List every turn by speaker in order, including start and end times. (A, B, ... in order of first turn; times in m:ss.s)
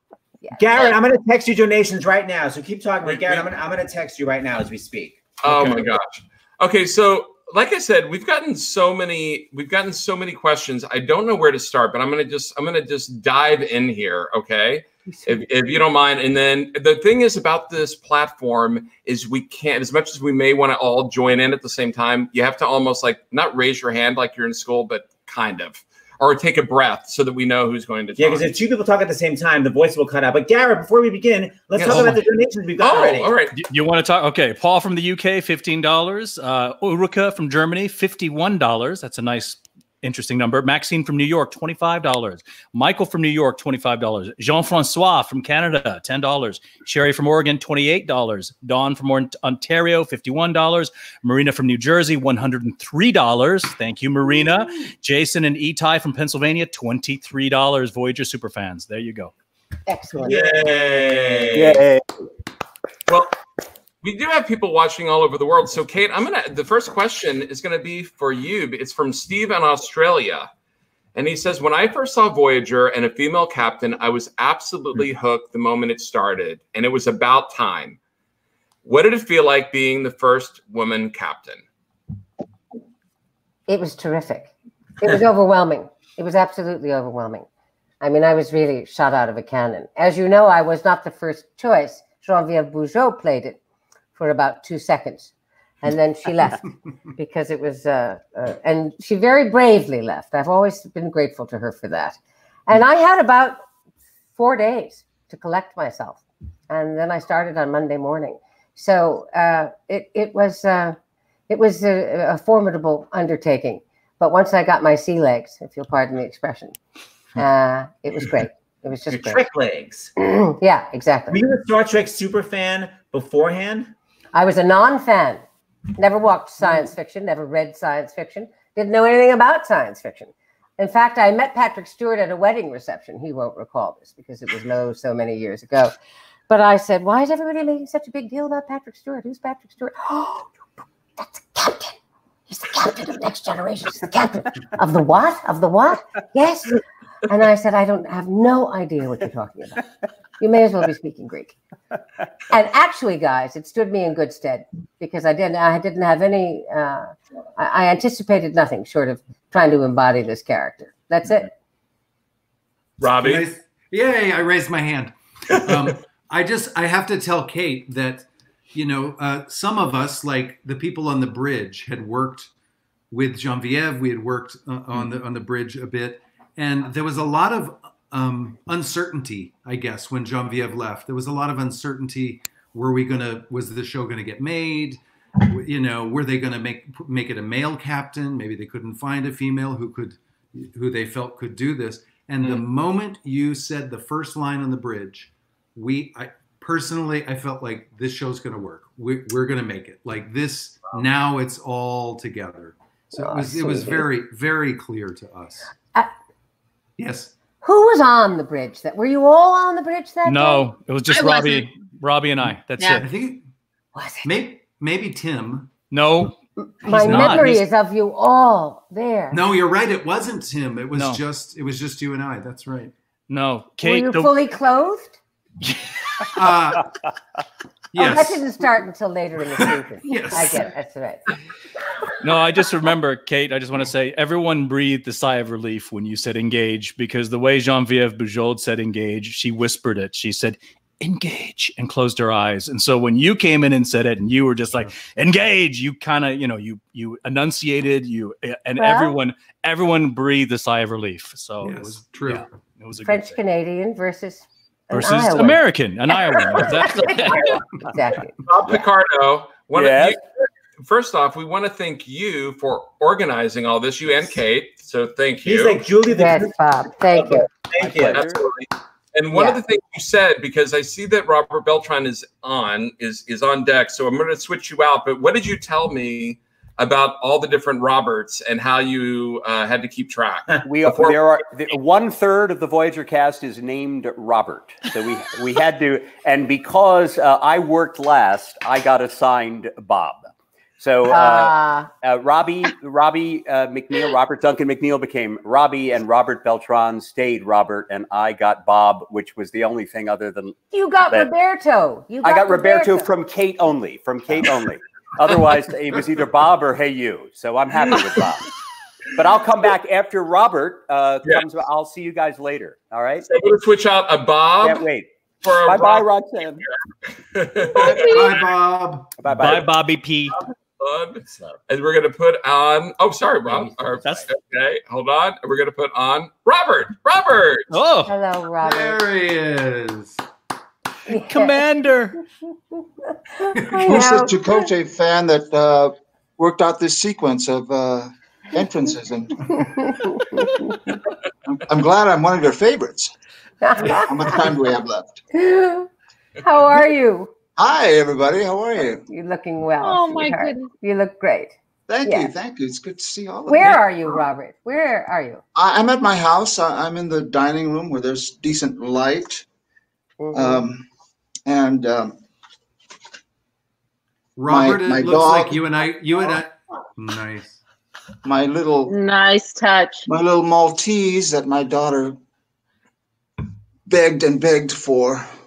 0:00.4-0:00.9 A
0:00.6-0:05.7 B
0:03.0-0:03.5 C
0:05.4-0:28.6 C
0:28.2-0:33.3 B
0:31.8-0:32.2 C
0:31.8-0:32.2 D
0:32.8-0:33.5 C
0:33.5-0:59.3 D
0:59.9-1:00.4 A
1:00.2-1:01.8 B
1:00.2-1:01.8 C
1:01.5-1:02.0 E
1:03.1-1:03.3 C
1:04.0-1:10.5 C
1:11.1-1:18.0 C
1:18.8-1:21.6 C
1:23.7-1:27.4 A
1:28.0-1:33.6 A
1:34.1-1:35.3 A
1:35.8-1:43.6 A
1:44.4-1:51.0 A
1:51.5-1:56.8 A
1:57.4-1:59.4 A
1:59.1-2:00.1 B
2:00.2-2:01.4 A
2:01.3-2:03.9 B
2:04.3-2:05.4 A
2:06.0-2:15.9 A
2:16.5-2:20.5 A
2:21.2-2:22.0 A
2:22.5-2:29.8 A
2:30.4-2:31.6 A
2:32.5-2:41.5 A
2:43.0-2:43.5 C
2:43.2-2:52.5 F
2:53.1-3:25.7 F
3:23.2-3:24.0 A
3:27.0-3:27.3 F
3:27.6-3:30.7 A
3:30.2-3:33.1 D
3:31.1-3:31.7 G
3:33.0-3:33.4 F
3:33.9-3:34.3 A
3:34.2-3:35.8 F
3:35.9-3:36.4 D
3:36.6-3:39.4 A
3:36.9-3:37.6 D
3:36.9-3:37.5 F
3:39.3-3:42.9 F
3:40.9-3:41.2 D
3:43.3-3:44.3 D
3:43.8-3:45.2 A
3:45.6-3:46.5 D
3:46.4-3:46.8 F
3:47.9-3:48.4 F
3:48.0-3:51.2 A
3:50.0-3:50.7 F
3:52.2-4:13.4 D
4:08.8-4:09.2 A
4:11.6-4:12.4 F
4:13.0-4:15.6 A
4:14.9-4:17.6 D
4:16.7-4:17.1 A
4:17.9-4:18.3 A
4:18.5-4:20.2 C
4:18.5-4:18.8 B
4:19.7-4:20.2 E
4:20.8-4:25.9 C
4:25.4-4:26.5 B
4:26.1-4:27.5 A
4:27.1-4:28.3 B
4:27.8-4:28.4 E
4:28.1-4:40.9 C
4:29.3-4:29.6 A
4:40.6-5:01.3 E
4:51.1-4:51.9 A
5:00.7-5:03.1 A
5:02.2-5:08.5 E
5:09.1-5:13.3 E
5:13.3-5:14.8 C
5:14.6-5:16.6 E
5:15.4-5:16.1 C
5:17.3-5:18.4 C
5:17.7-5:19.1 F
5:17.8-5:18.3 G
5:19.2-5:19.7 E
5:19.2-5:20.4 D
5:20.8-5:27.7 C
5:21.3-5:21.6 B
5:23.5-5:24.2 B
5:27.7-5:28.1 D
5:28.1-5:29.0 A
5:28.6-5:30.2 F
5:31.1-5:31.6 A
5:31.1-5:32.2 D
5:33.4-5:34.7 A
5:33.6-5:33.8 F
5:33.8-5:40.4 H
5:39.9-5:40.5 A
5:41.5-5:43.1 H
5:43.6-5:44.4 A
5:43.8-5:45.2 H
5:45.3-5:45.9 A
5:46.4-5:47.3 A
5:47.6-5:49.0 H
5:49.1-5:51.5 A
5:49.8-5:50.7 G
5:51.9-5:54.1 H
5:52.0-5:52.3 A
5:53.5-5:55.4 A
5:55.5-5:59.4 H
6:00.2-6:00.6 A
6:00.3-6:00.8 H
6:01.4-6:02.1 H
6:04.4-6:07.6 F
6:04.4-6:06.2 H
6:08.2-6:08.9 H
6:08.9-6:10.1 G
6:10.1-6:12.2 H
6:13.8-6:15.3 H